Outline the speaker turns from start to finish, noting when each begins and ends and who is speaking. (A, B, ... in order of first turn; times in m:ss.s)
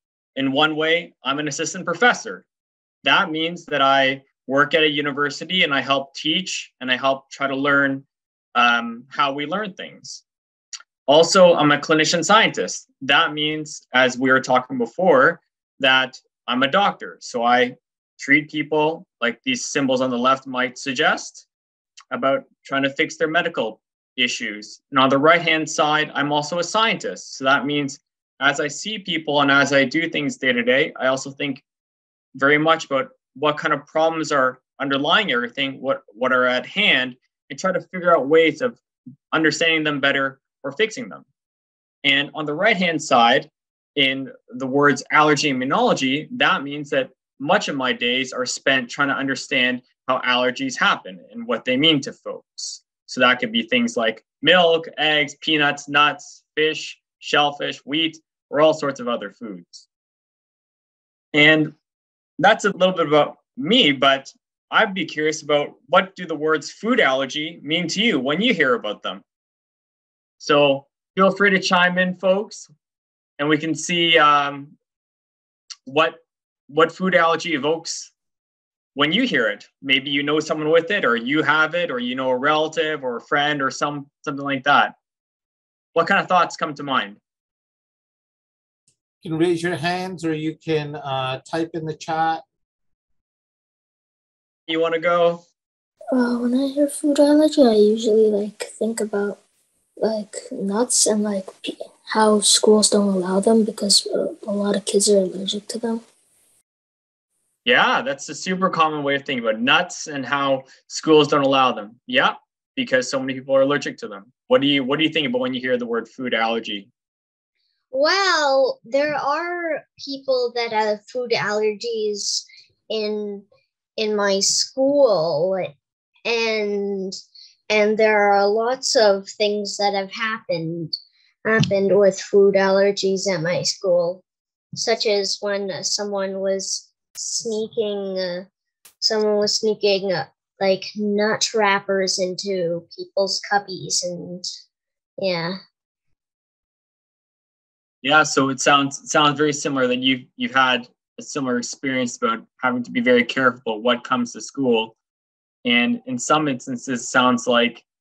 0:00.4-0:02.4 A
0:03.0-0:08.0 A
0:08.6-0:10.2 A
0:11.1-0:21.5 A
0:22.1-0:31.6 A
0:32.4-0:38.8 A
0:39.3-0:41.2 A
0:42.0-0:59.9 A
1:01.3-1:01.7 A
1:02.4-1:09.2 A
1:10.4-1:12.7 A
1:13.4-1:14.7 A
1:15.9-1:18.1 A
1:19.0-1:25.0 A
1:26.0-1:27.2 A
1:29.2-1:32.4 B
1:34.7-1:35.4 A
1:36.1-1:39.4 C
1:40.0-1:46.0 C
1:47.6-1:56.9 A
1:57.9-2:03.4 D
2:04.0-2:05.7 D
2:06.3-2:07.2 D
2:07.7-2:14.2 D
2:14.8-2:18.5 D
2:19.0-2:24.5 D
2:25.2-2:25.6 D
2:28.0-2:35.0 A
2:35.6-2:37.8 A